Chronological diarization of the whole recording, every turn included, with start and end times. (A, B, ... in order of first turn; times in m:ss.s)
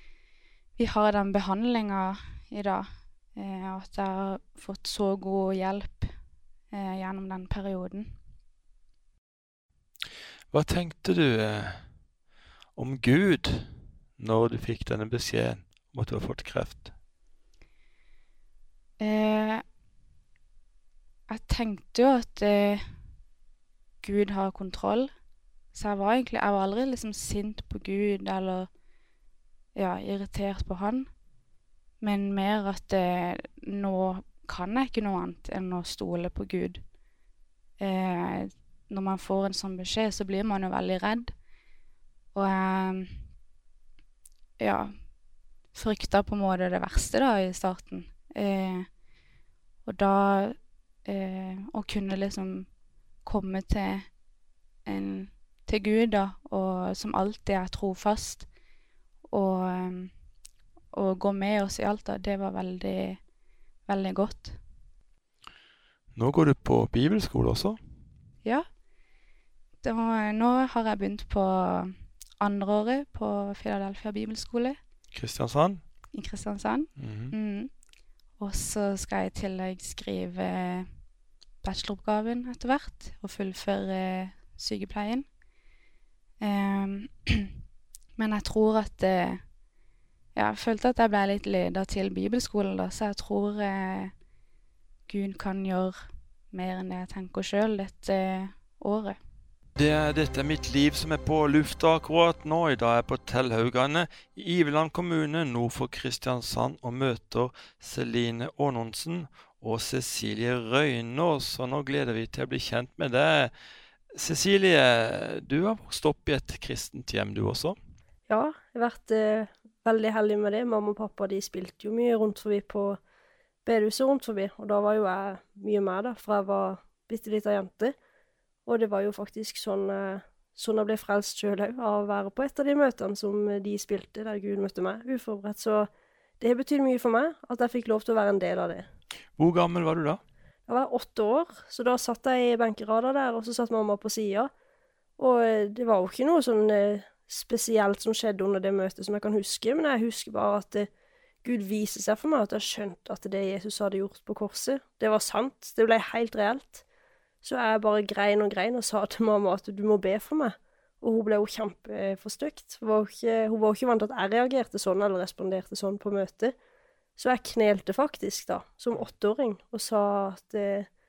0:00.8-0:06.1 A
0:06.7-0:08.2 A
0:10.5-0:11.9 B
0:12.8-0:16.9 B
0:19.0-0:19.6 A
0:21.3-0:23.0 A
0:24.0-0:25.1 A
0:25.7-0:28.7 A
0:29.8-0:31.1 A
0:32.0-0:36.8 A
0:37.8-0:41.4 A
0:42.3-0:43.2 A
0:44.6-0:45.1 A
0:45.7-0:48.9 A
0:49.8-0:54.2 A
0:54.8-0:58.5 A
0:59.3-1:00.1 A
1:00.9-1:03.2 A
1:03.9-1:04.6 A
1:06.2-1:07.8 B
1:09.8-1:14.8 A
1:15.1-1:15.8 B
1:16.1-1:17.7 A
1:17.0-1:17.3 B
1:18.4-1:21.0 A
1:21.6-1:25.3 A
1:26.4-1:27.5 A
1:28.2-1:29.5 A
1:30.4-1:34.1 A
1:35.1-1:36.0 A
1:36.5-1:39.2 A
1:39.8-1:53.5 B
1:54.2-1:57.8 B
1:58.3-2:03.0 C
2:03.6-2:08.0 C
2:08.7-2:15.9 C
2:16.4-2:18.9 C
2:19.4-2:20.2 B
2:20.7-2:24.5 C
2:25.2-2:30.9 C
2:31.4-2:36.8 C
2:37.4-2:46.6 C
2:47.2-2:50.9 C